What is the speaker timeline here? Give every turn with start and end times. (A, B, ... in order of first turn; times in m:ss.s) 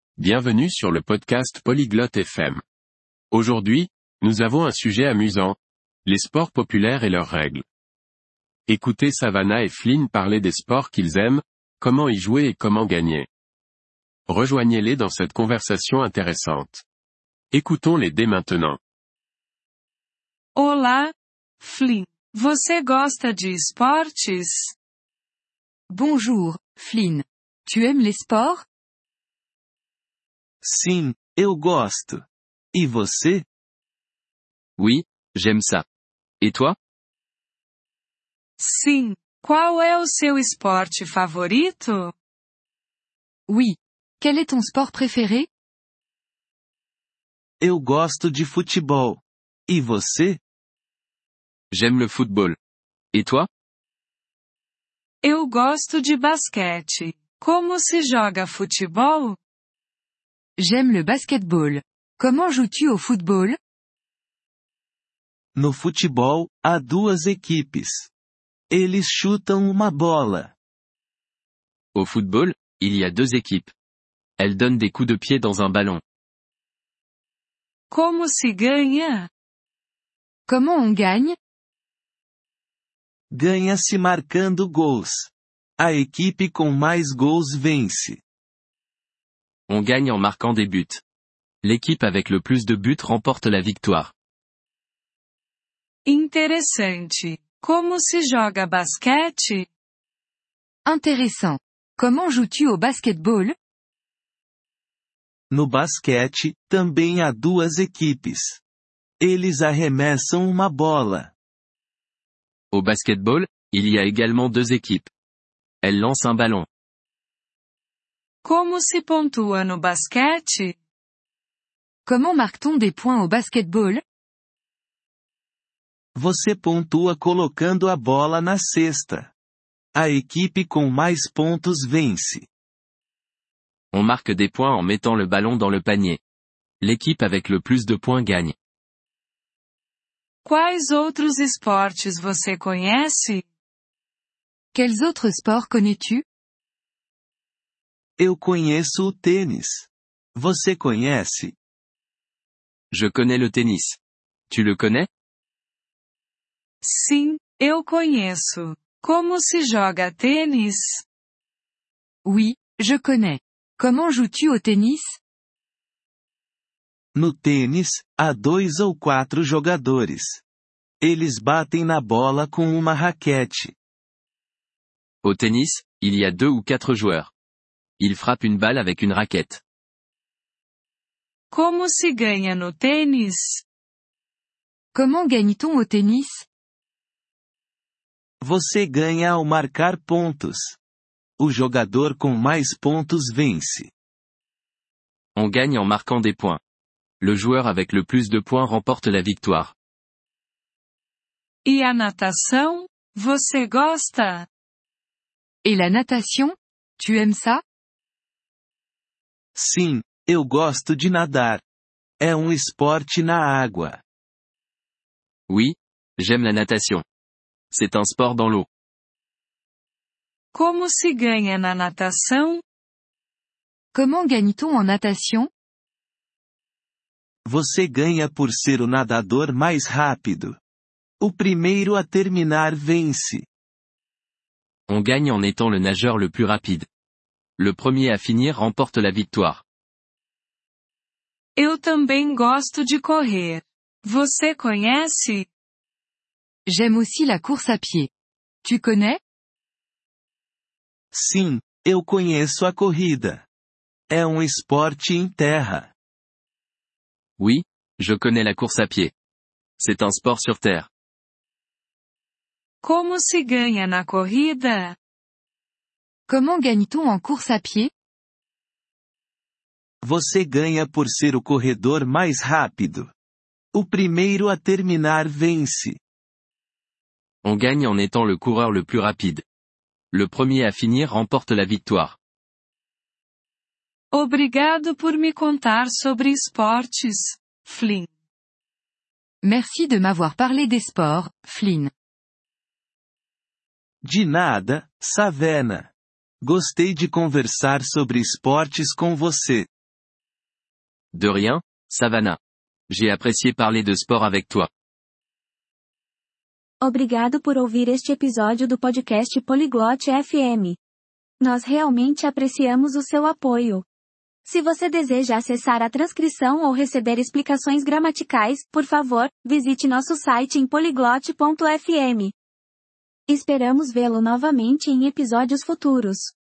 0:00.2-0:02.6 A
0:03.3-0:07.6 A
0:08.7-0:13.3 A
0:14.3-0:16.8 A
0:17.5-0:18.8 A
0:20.6-0:24.7 B
0:25.9-0:28.6 C
0:30.6-0:32.2 D
0:32.7-0:33.4 D
0:34.8-0:35.8 E
0:36.4-0:36.7 E
0:38.6-0:42.1 B
0:43.5-0:45.5 C
0:47.6-0:50.4 D
0:51.7-0:52.6 E
0:53.1-0:53.5 E
0:55.2-0:59.4 B
1:00.6-1:03.6 C
1:05.6-1:08.1 D
1:08.7-1:10.5 D
1:11.9-1:13.7 E
1:14.4-1:16.0 E
1:17.9-1:19.3 B
1:20.5-1:21.4 C
1:23.3-1:28.2 D
1:29.7-1:31.0 E
1:31.6-1:34.1 E
1:36.0-1:39.7 B
1:40.8-1:43.6 C
1:45.5-1:48.6 D
1:49.2-1:51.3 D
1:52.7-1:55.1 E
1:55.8-1:56.7 E
1:58.4-2:00.7 B
2:02.0-2:04.0 C
2:06.2-2:09.3 D
2:09.9-2:12.5 D
2:13.9-2:16.2 E
2:16.8-2:18.5 E
2:20.4-2:23.4 B
2:24.7-2:26.2 C
2:28.2-2:31.5 D
2:32.9-2:34.0 E
2:34.5-2:35.1 E
2:36.8-2:41.0 B
2:42.2-2:45.2 C
2:47.1-2:50.4 D
2:51.0-2:53.7 D
2:55.2-2:57.3 E
2:58.0-2:59.6 E
3:01.5-3:03.6 B
3:04.9-3:06.4 C
3:08.4-3:10.8 D
3:11.4-3:13.9 D
3:15.4-3:16.6 E
3:17.2-3:19.7 E
3:21.6-3:24.4 B
3:25.6-3:27.6 C
3:29.5-3:31.6 D
3:32.2-3:34.0 D
3:35.5-3:37.0 E
3:37.7-3:38.7 E
3:40.5-3:42.6 B
3:43.9-3:45.5 C
3:47.4-3:50.6 D
3:51.2-3:53.4 D
3:54.9-3:56.8 E
3:57.6-3:59.6 E
4:01.6-4:05.5 B
4:06.7-4:08.1 C
4:08.6-4:09.2 C
4:11.1-4:13.4 D
4:14.1-4:15.9 D
4:17.4-4:19.1 E
4:19.8-4:20.9 E
4:22.8-4:25.0 B
4:26.3-4:27.9 C
4:30.0-4:33.1 D
4:33.7-4:36.0 D
4:37.4-4:39.4 E
4:40.1-4:42.2 E
4:44.1-4:48.1 B
4:49.4-4:51.9 C
4:54.0-4:55.9 D
4:56.4-4:59.7 D
5:01.1-5:02.4 E
5:02.9-5:04.7 E
5:06.8-5:10.8 F
5:11.4-5:13.8 F
5:14.4-5:22.3 F
5:23.3-5:26.3 F